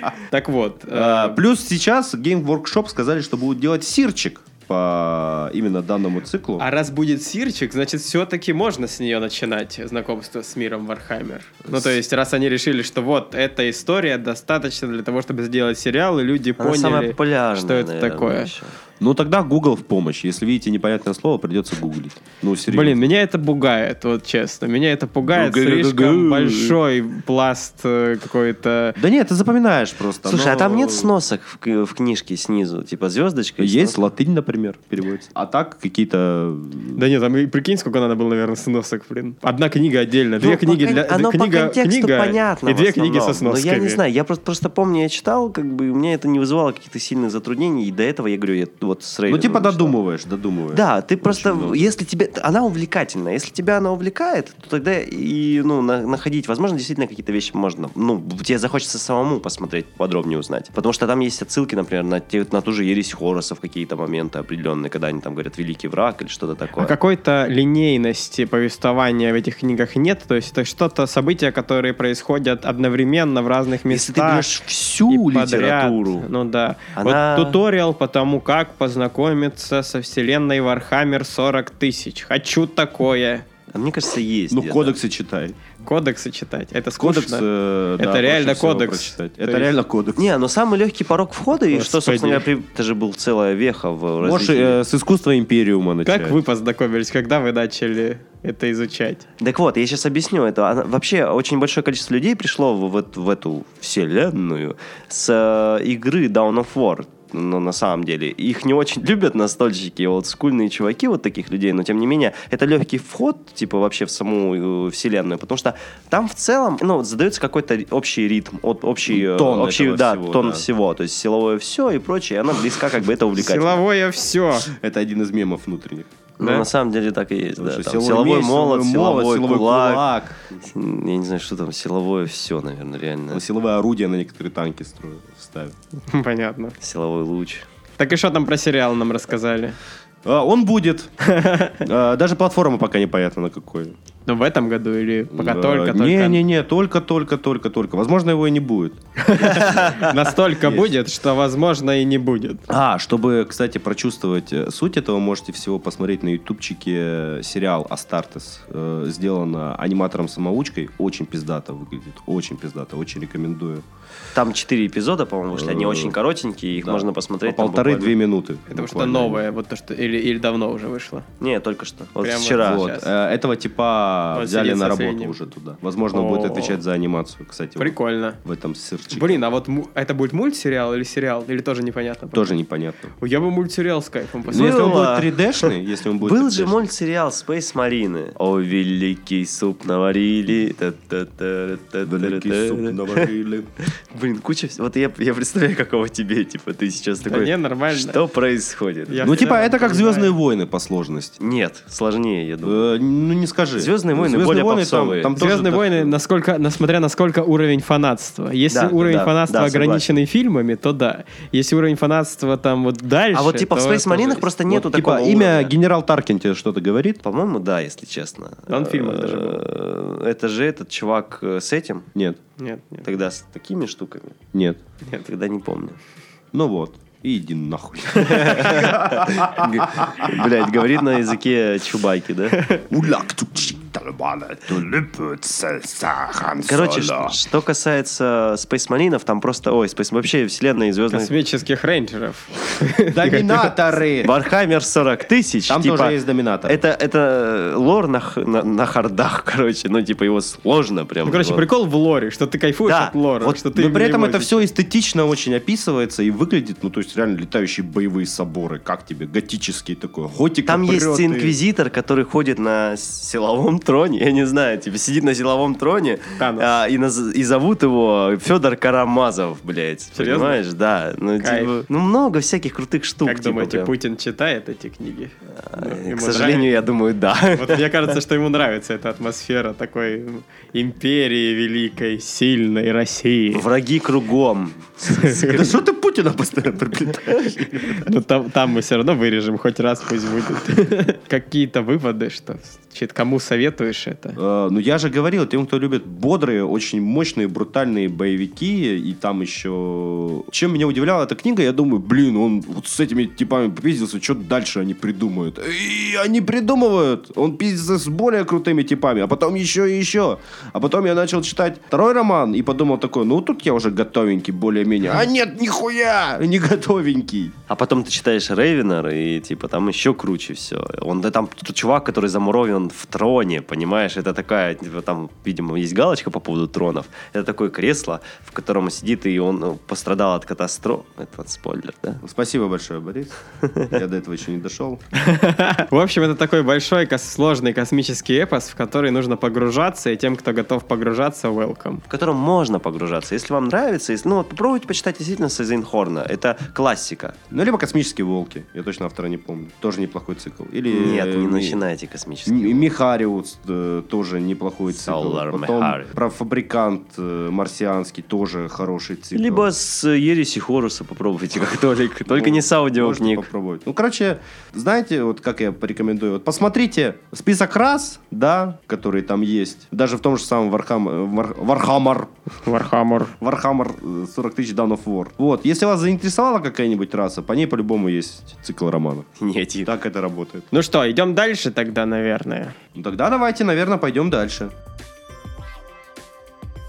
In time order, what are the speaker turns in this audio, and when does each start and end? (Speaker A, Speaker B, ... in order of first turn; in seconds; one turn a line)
Speaker A: 0.3-1.4
Speaker B: 0.9-6.7
Speaker A: 6.6-18.5
Speaker B: 11.7-11.9
Speaker C: 16.6-18.7
Speaker B: 19.0-23.1
Speaker A: 22.7-29.0
Speaker B: 25.3-26.8
Speaker B: 29.0-31.1
Speaker C: 30.2-34.0
Speaker B: 33.6-37.0
Speaker A: 36.9-44.0
Speaker C: 40.4-49.9
Speaker B: 49.3-51.9
Speaker C: 50.7-66.9
Speaker A: 66.8-74.5
Speaker C: 73.9-76.2
Speaker A: 75.1-83.5
Speaker C: 77.0-77.6
Speaker C: 83.7-85.0
Speaker B: 84.5-85.6
Speaker A: 85.8-87.5
Speaker B: 87.0-90.3
Speaker A: 88.0-89.7
Speaker C: 90.2-94.8
Speaker A: 91.7-92.5
Speaker B: 94.2-96.4
Speaker A: 96.0-99.2
Speaker C: 99.4-123.8
Speaker B: 119.1-120.6
Speaker A: 123.4-124.7
Speaker B: 124.7-126.1
Speaker C: 126.4-130.0
Speaker A: 126.4-126.7
Speaker B: 127.6-130.4
Speaker C: 130.6-133.4
Speaker B: 133.3-135.7
Speaker A: 136.1-136.8
Speaker C: 136.8-137.6
Speaker A: 138.0-139.8
Speaker B: 140.2-141.1
Speaker A: 141.2-141.8
Speaker B: 141.8-143.9
Speaker A: 144.3-146.4
Speaker B: 145.3-150.0
Speaker A: 149.2-152.6
Speaker C: 149.5-150.0
Speaker B: 150.6-150.9
Speaker B: 152.7-163.8
Speaker C: 164.3-168.2
Speaker B: 165.5-166.2
Speaker B: 166.8-169.4
Speaker A: 168.7-171.2
Speaker C: 171.4-172.9
Speaker A: 172.2-173.1
Speaker B: 172.6-179.4
Speaker A: 174.3-175.4
Speaker A: 176.1-176.8
Speaker A: 177.8-178.4
Speaker A: 179.1-182.5
Speaker B: 182.3-183.1
Speaker A: 183.2-185.0
Speaker B: 184.5-186.9
Speaker C: 184.5-185.7
Speaker C: 186.2-193.3
Speaker B: 192.1-193.7
Speaker C: 193.9-199.5
Speaker A: 197.2-198.2
Speaker A: 199.1-200.3
Speaker B: 199.2-201.4
Speaker C: 201.4-202.9
Speaker B: 202.6-206.1
Speaker C: 203.8-205.3
Speaker A: 205.3-214.5
Speaker C: 208.7-210.2
Speaker C: 213.3-215.7
Speaker B: 214.7-217.2
Speaker C: 217.2-222.1
Speaker A: 218.7-219.6
Speaker A: 222.6-223.1
Speaker C: 223.0-224.4
Speaker B: 224.5-224.8
Speaker C: 225.2-226.0
Speaker B: 226.5-230.5
Speaker C: 228.3-232.6
Speaker A: 232.5-232.8
Speaker B: 232.9-237.4
Speaker C: 236.6-241.3
Speaker A: 241.1-243.8
Speaker B: 243.1-244.3
Speaker C: 244.2-251.6
Speaker B: 245.7-246.8
Speaker A: 251.2-254.7
Speaker C: 252.9-253.6
Speaker B: 253.7-261.6
Speaker C: 260.6-273.9
Speaker A: 266.4-266.7
Speaker A: 270.1-270.6
Speaker A: 271.4-271.8
Speaker A: 273.2-276.7
Speaker C: 275.6-277.8
Speaker A: 277.5-283.6
Speaker C: 283.5-285.5
Speaker A: 285.0-285.7
Speaker B: 285.4-288.1
Speaker A: 287.9-294.4
Speaker B: 294.4-317.5
Speaker C: 317.7-332.2
Speaker B: 332.2-335.0
Speaker C: 333.7-333.9
Speaker A: 335.2-342.0
Speaker C: 342.1-347.4
Speaker B: 347.5-351.8
Speaker C: 350.9-352.9
Speaker B: 352.4-359.7
Speaker C: 354.9-356.1
Speaker C: 359.4-363.5
Speaker B: 362.3-372.3
Speaker A: 372.6-373.3
Speaker B: 373.4-379.3
Speaker C: 379.4-379.9
Speaker B: 379.9-380.7
Speaker A: 380.7-382.7
Speaker B: 382.9-384.7